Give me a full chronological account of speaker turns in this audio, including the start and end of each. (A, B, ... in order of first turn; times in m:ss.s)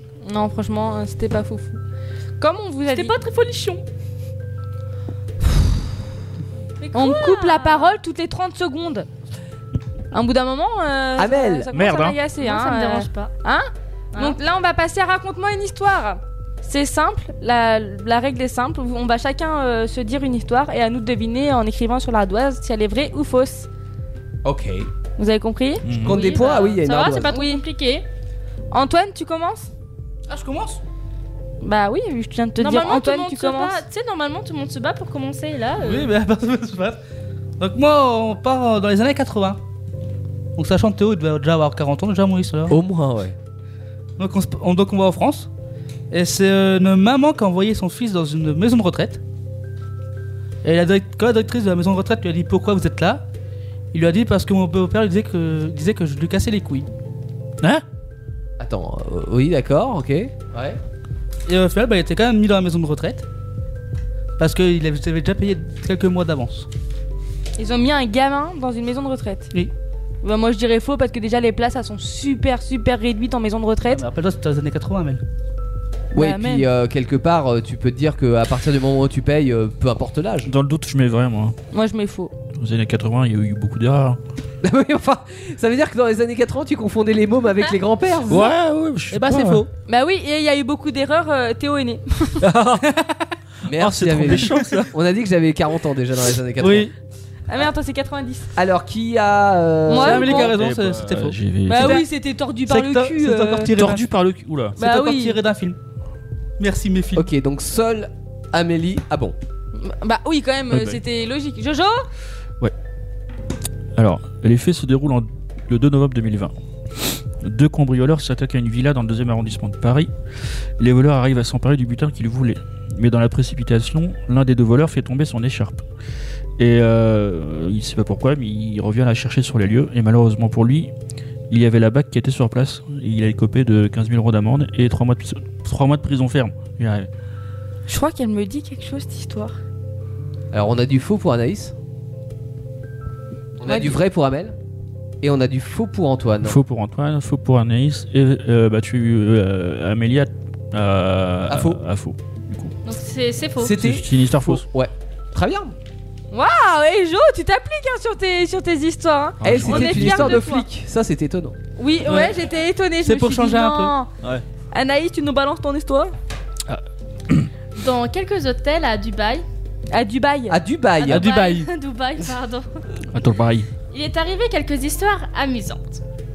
0:00.2-0:01.8 A
0:02.4-0:03.1 A
0:02.9-0:03.8 B
0:06.8-0:08.0 B
0:06.9-0:09.1 A
0:10.1-0:23.7 A
0:11.2-0:11.7 C
0:11.7-0:12.2 D
0:12.4-0:13.3 B
0:14.1-0:14.4 B
0:24.4-0:24.9 C
0:25.2-0:25.9 A
0:25.8-0:26.2 D
0:26.0-0:27.3 C
0:26.0-0:28.1 B
0:27.3-0:27.6 A
0:28.7-0:29.7 A
0:30.3-0:30.8 E
0:31.6-0:33.8 A
0:32.6-0:36.1 B
0:35.8-0:37.0 E
0:37.6-0:39.6 E
0:40.6-0:42.8 E
0:42.7-0:43.4 C
0:44.2-0:45.5 E
0:46.1-0:49.2 E
0:50.6-0:53.2 E
0:53.9-0:56.9 E
0:58.6-1:00.8 C
1:01.4-1:03.2 E
1:04.4-1:06.7 E
1:07.6-1:09.5 A
1:10.2-1:14.0 A
1:13.9-1:15.2 E
1:16.1-1:20.5 C
1:16.1-1:16.7 A
1:20.4-1:21.6 D
1:21.7-1:22.3 A
1:22.6-1:24.2 D
1:24.6-1:28.5 C
1:28.3-1:29.6 D
1:29.1-1:29.7 E
1:29.9-1:32.4 A
1:32.4-1:32.9 D
1:33.7-1:34.9 D
1:33.7-1:36.9 C
1:36.6-1:36.9 E
1:37.5-1:38.5 A
1:38.6-1:40.5 C
1:39.9-1:40.6 A
1:40.0-1:42.1 E
1:40.4-1:42.0 D
1:41.7-1:43.7 A
1:42.7-1:44.1 E
1:43.7-1:44.8 D
1:44.8-1:45.8 E
1:44.8-1:45.4 A
1:46.6-1:47.3 E
1:47.1-1:49.4 C
1:49.8-1:52.1 A
1:50.7-1:51.0 D
1:54.0-2:00.1 D
2:00.8-2:05.8 D
2:06.6-2:10.9 D
2:11.5-2:17.1 D
2:17.9-2:19.6 A
2:20.5-2:21.7 C
2:23.6-2:24.6 C
2:23.7-2:24.0 A
2:25.2-2:26.6 C
2:26.4-2:32.7 D
2:31.5-2:31.8 C
2:32.9-2:33.7 B
2:33.6-2:35.8 C
2:33.7-2:34.6 D
2:36.3-2:40.6 A
2:39.4-2:40.4 D
2:39.4-2:41.6 C
2:41.8-2:44.1 A
2:42.1-2:42.4 E
2:43.0-2:44.0 E
2:44.7-2:46.1 A
2:46.7-2:47.5 D
2:47.8-2:49.4 B
2:49.9-2:50.6 A
2:50.5-2:51.3 C
2:51.0-2:52.8 B
2:51.1-2:51.7 E
2:53.1-2:53.7 D
2:53.9-2:56.0 B